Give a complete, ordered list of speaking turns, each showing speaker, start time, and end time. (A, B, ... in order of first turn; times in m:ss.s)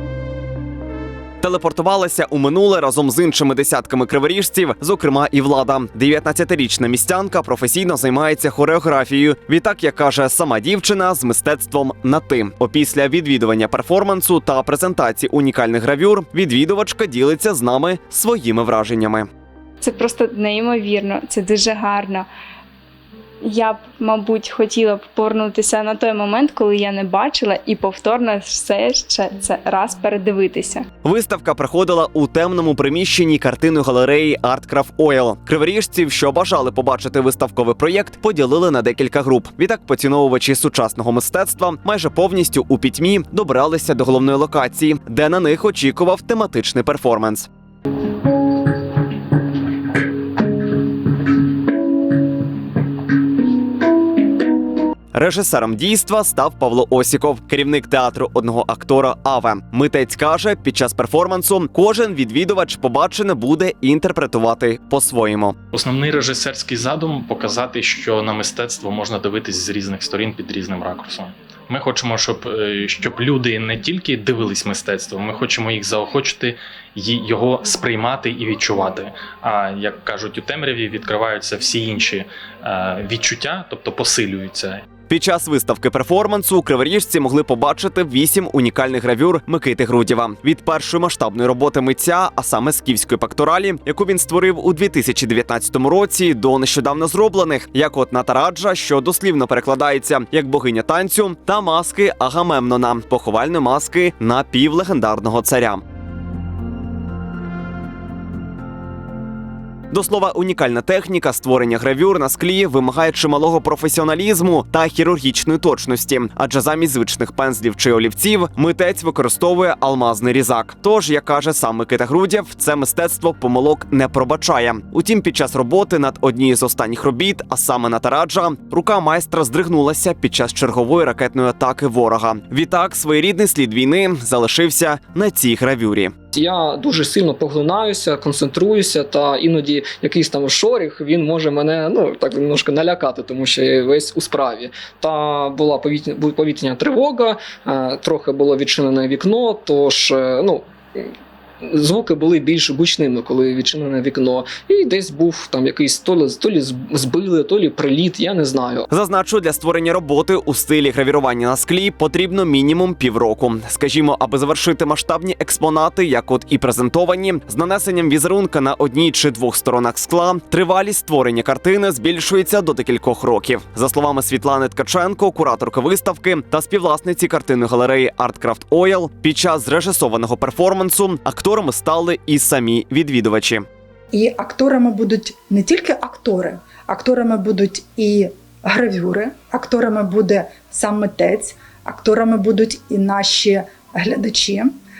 0:01.4-0:19.3 A
0:19.8-0:22.3 B
0:23.4-0:30.9 B
0:31.0-0:47.5 A
0:55.1-1:05.6 A
1:05.7-1:24.8 C
1:25.1-1:45.8 A
1:49.9-2:16.1 A
2:16.4-2:31.1 D
2:31.6-2:38.9 D
2:38.9-3:03.6 A
3:04.1-3:14.7 E